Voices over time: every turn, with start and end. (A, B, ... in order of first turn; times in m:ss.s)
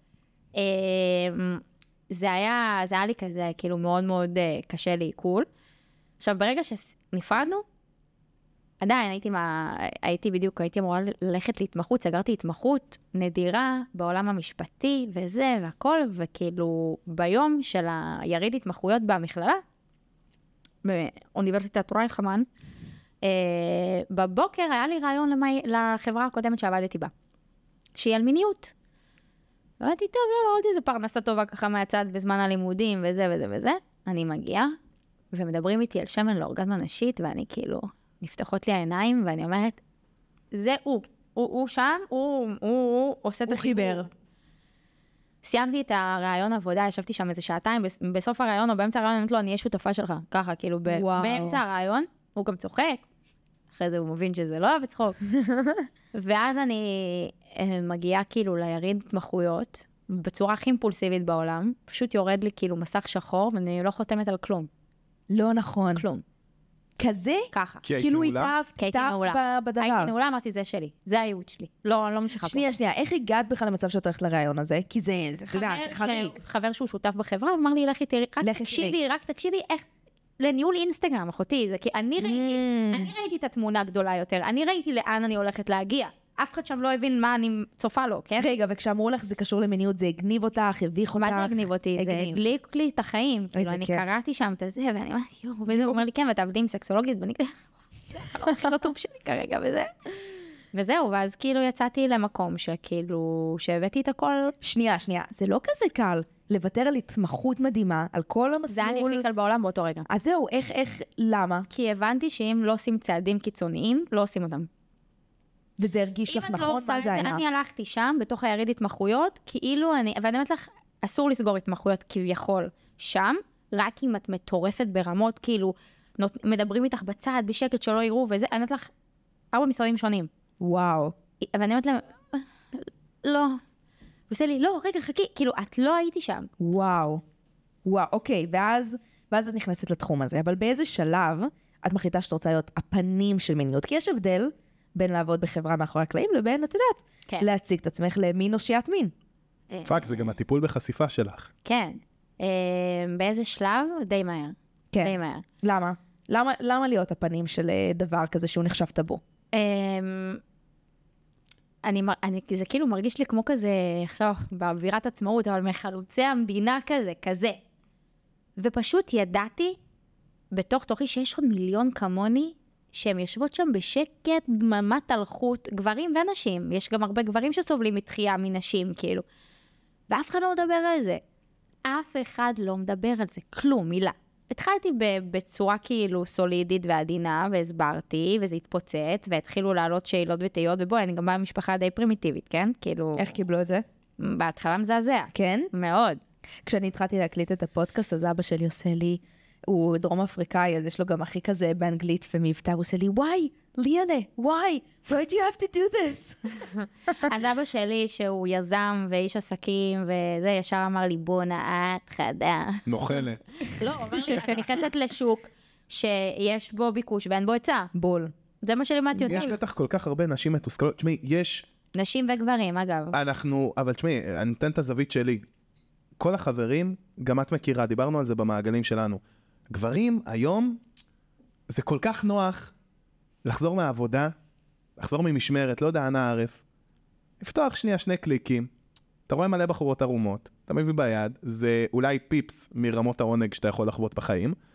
0:00.6-0:05.4 A
0:06.2-0:07.6 A
0:08.8-0:19.6 A
0:20.8-0:22.5 A
0:23.2-0:27.1 A
0:27.9-0:28.7 A
0:29.8-0:34.7 A
0:35.3-0:39.8 A
0:40.5-0:44.0 A
0:43.5-0:44.1 B
0:45.4-0:53.0 A
0:50.9-0:51.6 B
0:53.7-0:55.2 A
0:55.3-0:55.9 B
0:56.1-1:04.7 A
1:05.3-1:06.1 B
1:05.9-1:06.2 A
1:07.0-1:10.1 B
1:07.5-1:07.8 A
1:07.8-1:08.5 C
1:08.8-1:12.6 A
1:12.4-1:16.4 B
1:15.5-1:19.9 A
1:18.4-1:19.0 B
1:20.4-1:28.5 A
1:22.2-1:23.1 B
1:28.4-1:32.4 B
1:31.2-1:37.6 A
1:33.5-1:34.0 B
1:35.7-1:36.0 B
1:38.1-1:39.9 A
1:40.7-1:44.6 A
1:44.6-1:49.2 B
1:48.7-1:50.1 A
1:50.1-1:51.7 B
1:51.7-1:54.7 A
1:55.8-1:57.4 B
1:56.3-2:08.9 A
2:09.5-2:10.3 A
2:10.6-2:11.1 B
2:11.4-2:13.6 A
2:14.3-2:16.5 A
2:16.6-2:17.2 B
2:17.8-2:29.1 B
2:29.7-2:30.3 A
2:29.8-2:31.5 C
2:31.6-2:35.4 A
2:34.9-2:39.2 B
2:39.5-2:40.4 A
2:41.8-2:47.6 A
2:48.6-2:49.8 A
2:50.5-2:59.2 A
3:00.1-3:01.2 A
3:01.9-3:13.3 A
3:13.1-3:13.8 B
3:14.2-3:16.2 A
3:15.3-3:15.7 B
3:16.6-3:26.6 B
3:27.1-3:33.1 A
3:32.9-3:33.4 C
3:33.7-3:37.9 A
3:37.9-3:38.3 B
3:38.6-3:39.6 A
3:39.1-3:39.5 B
3:39.3-3:41.6 C
3:41.9-3:43.2 A
3:43.1-3:45.4 C
3:46.2-3:50.8 C
3:51.7-3:52.7 C
3:53.4-3:54.3 C
3:55.0-3:56.6 C
3:57.4-3:58.7 C
3:59.3-4:04.6 C